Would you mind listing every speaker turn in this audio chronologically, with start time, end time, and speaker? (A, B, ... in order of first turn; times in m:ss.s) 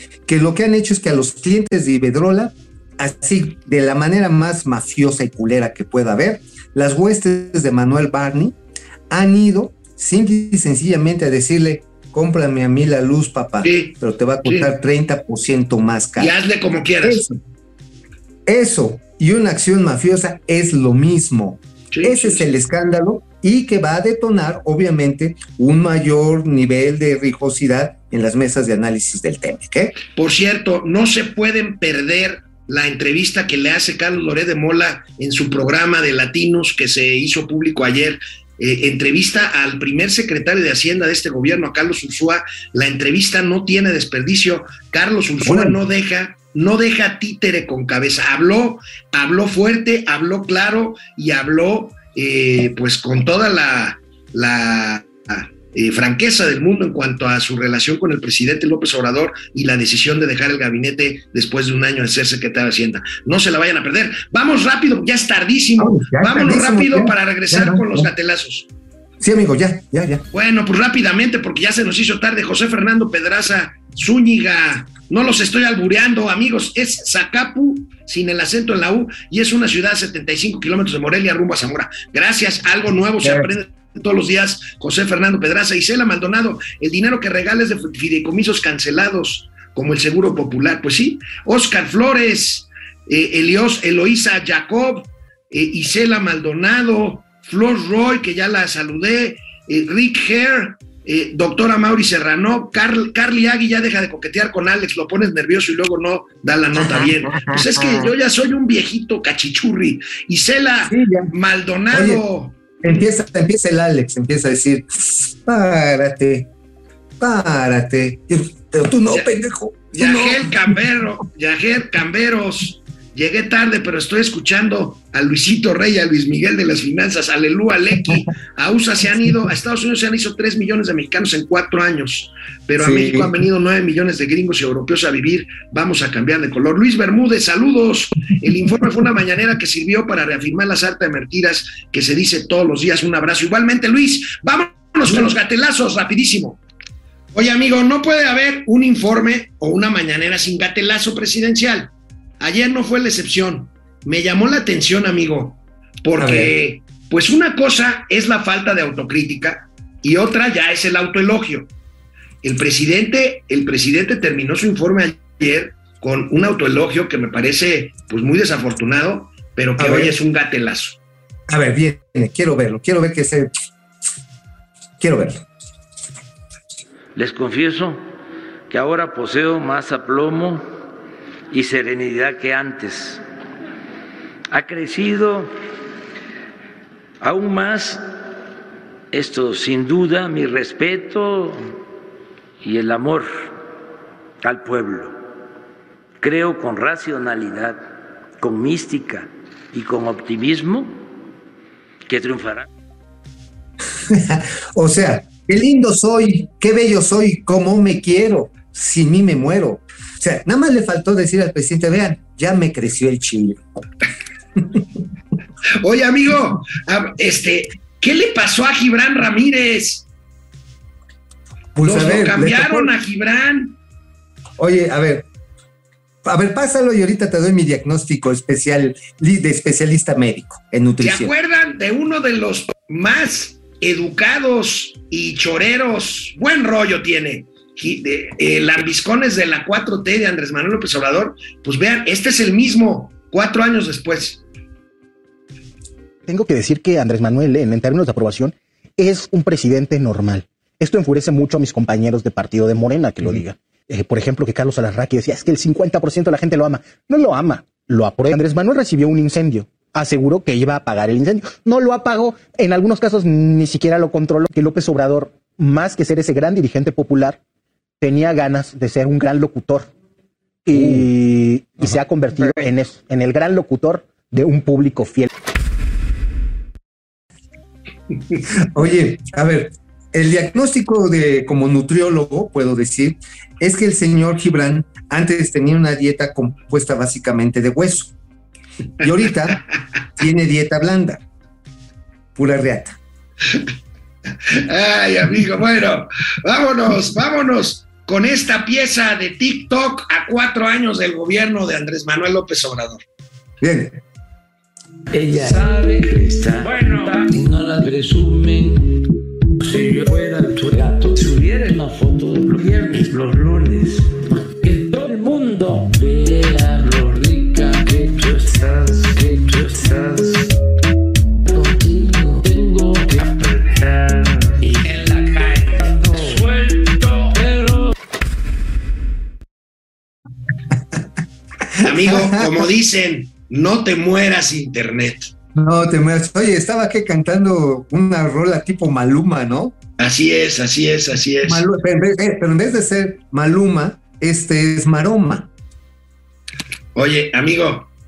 0:00.3-0:08.6 A
0:09.1-0:16.3 A
0:13.6-0:13.9 B
0:14.4-0:14.7 B
0:16.2-0:17.2 B
0:17.0-0:17.4 A
0:18.5-0:30.0 A
0:21.9-0:22.5 B
0:30.2-1:08.7 B
0:45.4-0:45.8 A
1:05.8-1:08.1 A
1:09.2-1:10.2 A
1:10.3-1:52.6 B
1:23.2-1:23.5 A
1:46.8-1:48.1 A
1:50.9-1:51.3 A
1:51.9-1:52.2 A
1:52.8-1:56.5 A
1:57.2-2:00.5 A
1:59.9-2:26.6 B
2:12.8-2:13.4 A
2:27.3-2:41.7 B
2:36.2-2:36.5 A
2:42.4-2:51.0 B
2:49.8-2:50.2 A
2:51.5-2:53.5 A
2:55.0-2:55.4 A
2:57.2-2:58.0 C
2:58.7-3:00.7 C
3:01.5-3:03.2 C
3:04.5-3:05.5 C
3:07.2-3:08.0 C
3:09.1-3:11.8 C
3:12.6-3:13.6 C
3:14.4-3:15.2 C
3:16.2-3:17.8 C
3:18.4-3:21.0 C
3:22.1-3:22.7 C
3:24.0-3:33.6 A
3:35.8-3:40.1 B
3:41.8-3:42.9 A
3:41.8-3:43.8 B
3:44.6-3:45.3 A
3:46.2-3:51.3 A
3:51.0-4:04.4 B
4:06.3-4:27.4 D
4:28.0-4:29.9 D
4:30.7-4:35.3 D
4:38.6-4:48.1 A
4:49.0-4:49.6 A
4:50.2-4:51.2 A
4:52.4-4:53.0 A
4:54.5-5:03.0 B
5:03.6-5:04.0 A
5:05.1-5:09.0 C
5:09.6-5:20.6 C
5:21.4-5:27.9 C
5:31.8-5:32.7 A
5:31.8-5:35.3 B
5:35.6-5:39.8 A
5:40.0-5:41.6 B
5:41.4-5:45.5 A
5:47.0-5:47.9 B